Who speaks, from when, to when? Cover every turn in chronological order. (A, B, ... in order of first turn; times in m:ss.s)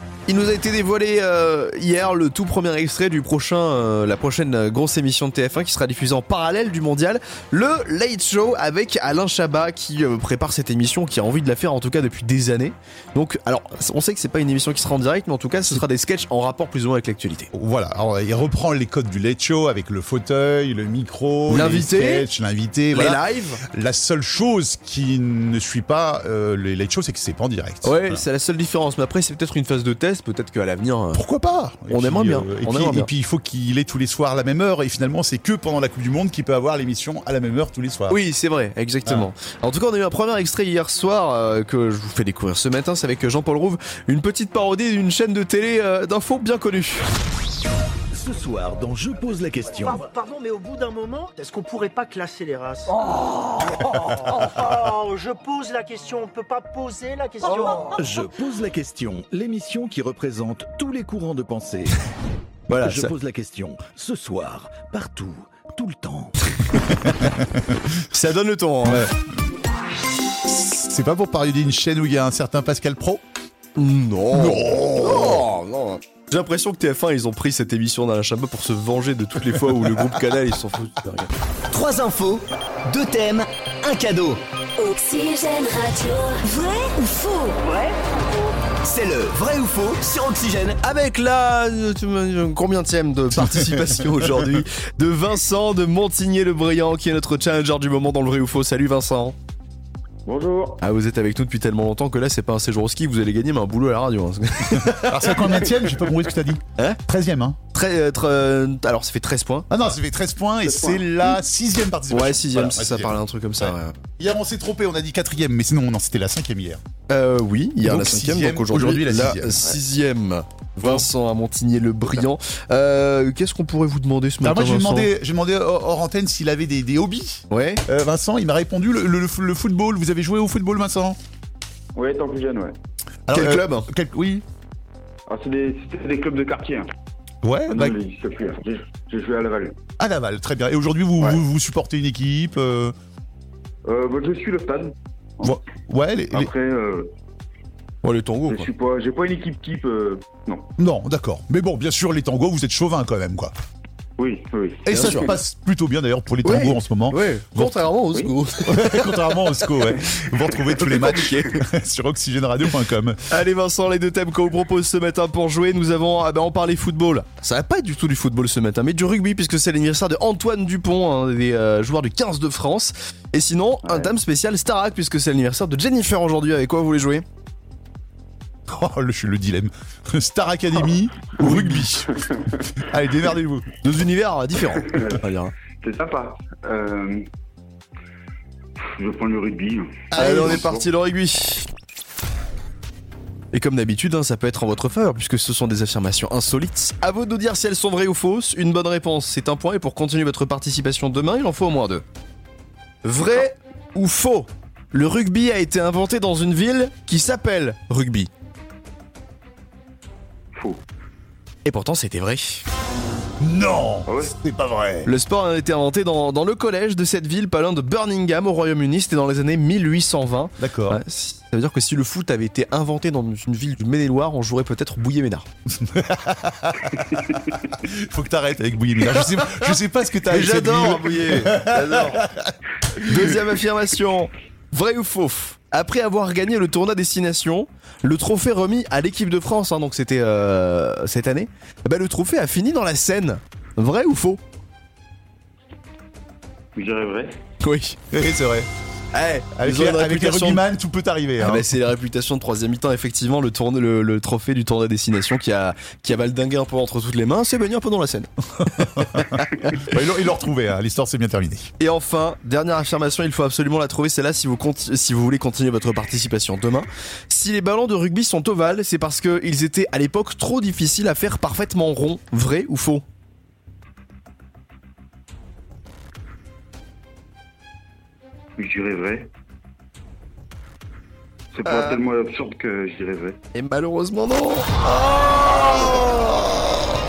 0:00.3-0:17.5 A
0:17.5-0:28.2 B
0:21.5-0:22.3 A
0:22.9-0:23.6 A
0:27.8-0:31.2 A
0:31.1-0:38.2 B
0:31.9-0:33.1 A
0:38.1-0:47.1 A
0:48.1-0:50.0 C
0:49.8-0:53.0 D
0:53.6-0:58.0 D
0:57.6-1:02.0 C
1:02.7-1:03.1 A
1:02.8-1:06.3 C
1:07.0-1:07.4 B
1:08.1-1:09.1 A
1:08.8-1:09.1 B
1:10.5-1:13.2 B
1:13.8-1:21.3 A
1:14.3-1:15.5 B
1:21.7-1:24.4 E
1:24.8-1:27.7 F
1:28.8-1:30.8 E
1:30.8-1:39.4 A
1:33.4-1:34.5 B
1:40.3-1:40.8 G
1:40.8-1:45.7 A
1:44.8-1:47.6 B
1:47.7-1:49.7 A
1:49.7-1:56.8 B
1:50.6-1:51.0 G
1:52.1-1:54.0 A
1:57.1-2:05.1 A
1:57.8-1:59.8 B
2:04.4-2:11.2 B
2:07.5-2:07.8 A
2:12.0-2:12.8 G
2:13.3-2:14.4 B
2:13.3-2:13.9 A
2:15.3-2:16.9 G
2:17.4-2:18.0 B
2:17.7-2:19.7 G
2:20.0-2:23.0 B
2:23.9-2:25.6 G
2:25.4-2:26.5 B
2:26.3-2:27.1 G
2:28.0-2:28.7 A
2:28.5-2:30.7 G
2:30.8-2:33.5 B
2:34.2-2:35.2 G
2:34.9-2:37.8 B
2:34.9-2:35.4 A
2:36.4-2:39.6 A
2:38.6-2:43.2 B
2:40.8-2:41.6 A
2:43.3-2:57.2 A
2:58.7-3:02.0 B
3:01.4-3:02.1 A
3:02.8-3:03.7 B
3:03.8-3:05.5 A
3:04.9-3:05.2 G
3:05.8-3:07.2 G
3:09.0-3:10.8 G
3:10.1-3:10.7 B
3:10.1-3:11.7 A
3:13.5-3:22.0 A
3:23.0-3:28.3 A
3:30.6-3:30.8 G
3:31.6-3:32.6 A
3:33.4-3:35.1 B
3:34.1-3:34.3 G
3:35.0-3:45.5 A
3:40.6-3:41.0 B
3:45.7-3:53.3 B
3:49.3-3:49.7 A
3:50.2-3:52.2 A
3:53.0-4:04.4 A
4:06.8-4:07.4 G
4:07.6-4:08.0 A
4:08.1-4:08.7 B
4:09.1-4:10.6 A
4:09.6-4:11.7 B
4:11.4-4:19.9 A
4:18.8-4:21.7 B
4:21.8-4:33.0 A
4:38.6-4:39.3 G
4:41.5-4:43.4 G
4:41.7-4:42.0 A
4:43.5-4:46.4 A